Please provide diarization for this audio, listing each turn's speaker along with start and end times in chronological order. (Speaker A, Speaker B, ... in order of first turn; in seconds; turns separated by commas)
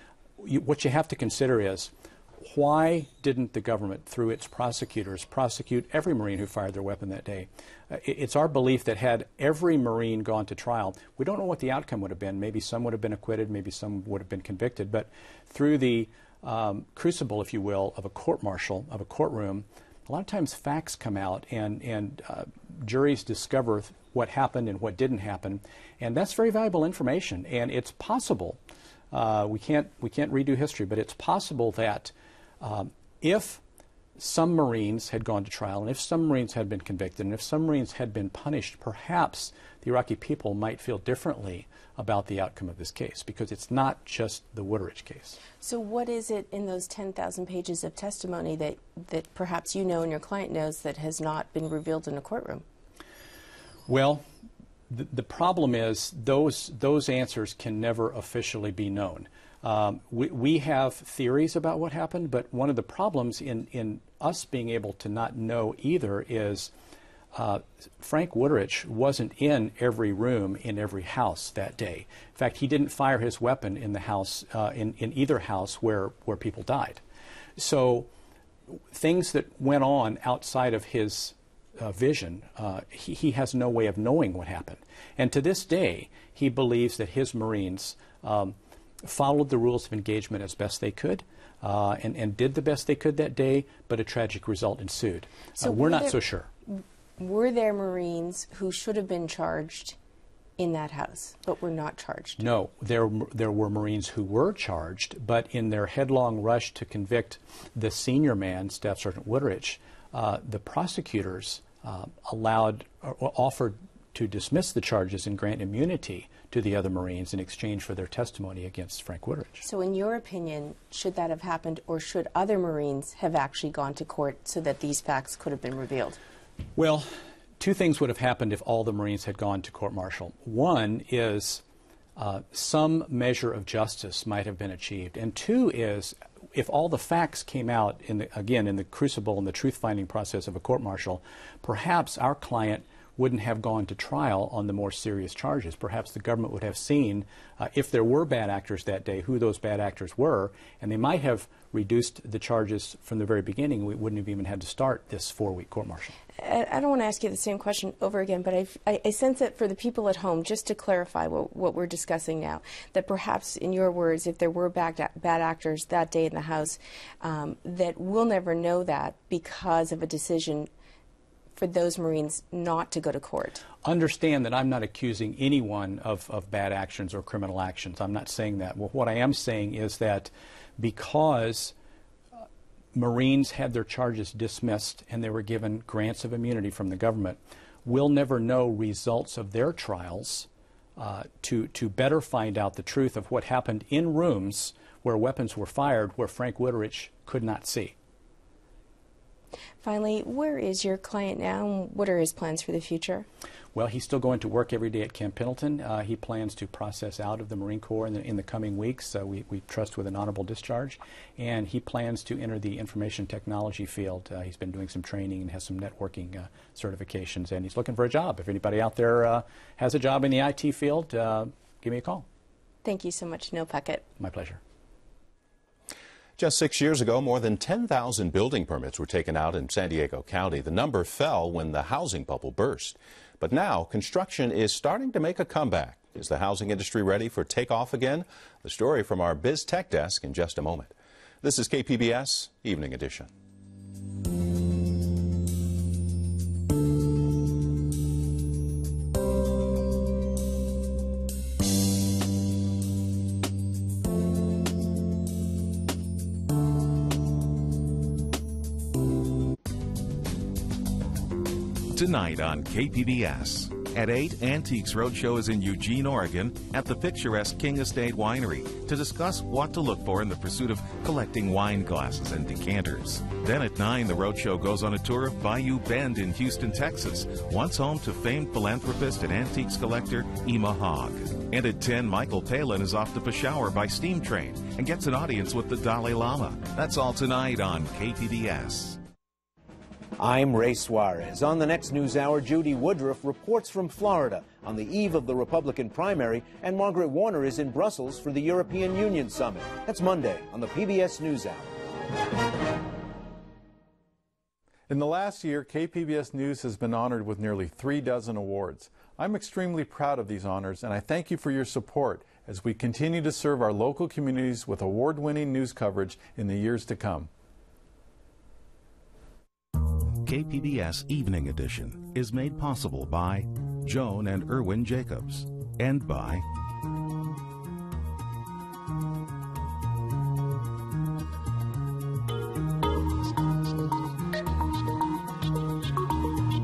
Speaker A: 0.4-28.6, Speaker A: 29.1-33.6, Speaker A: 34.2-45.4, Speaker B: 45.6-52.6, Speaker A: 53.9-54.2, Speaker A: 54.9-66.7, Speaker A: 67.3-77.0, Speaker A: 77.6-78.1, Speaker A: 78.7-96.5, Speaker B: 95.6-100.0, Speaker B: 100.6-102.4, Speaker A: 102.4-119.6, Speaker B: 119.6-126.2, Speaker A: 126.8-127.1, Speaker A: 127.6-131.6, Speaker A: 132.2-156.1, Speaker B: 156.4-170.7, Speaker B: 171.6-173.6, Speaker A: 173.8-181.7, Speaker A: 182.9-197.9, Speaker B: 199.8-203.3, Speaker A: 203.7-222.2, Speaker B: 222.8-224.0, Speaker A: 224.2-224.6, Speaker C: 226.4-243.3, Speaker D: 261.9-289.0, Speaker E: 290.2-301.8, Speaker F: 304.9-317.3, Speaker D: 320.2-326.4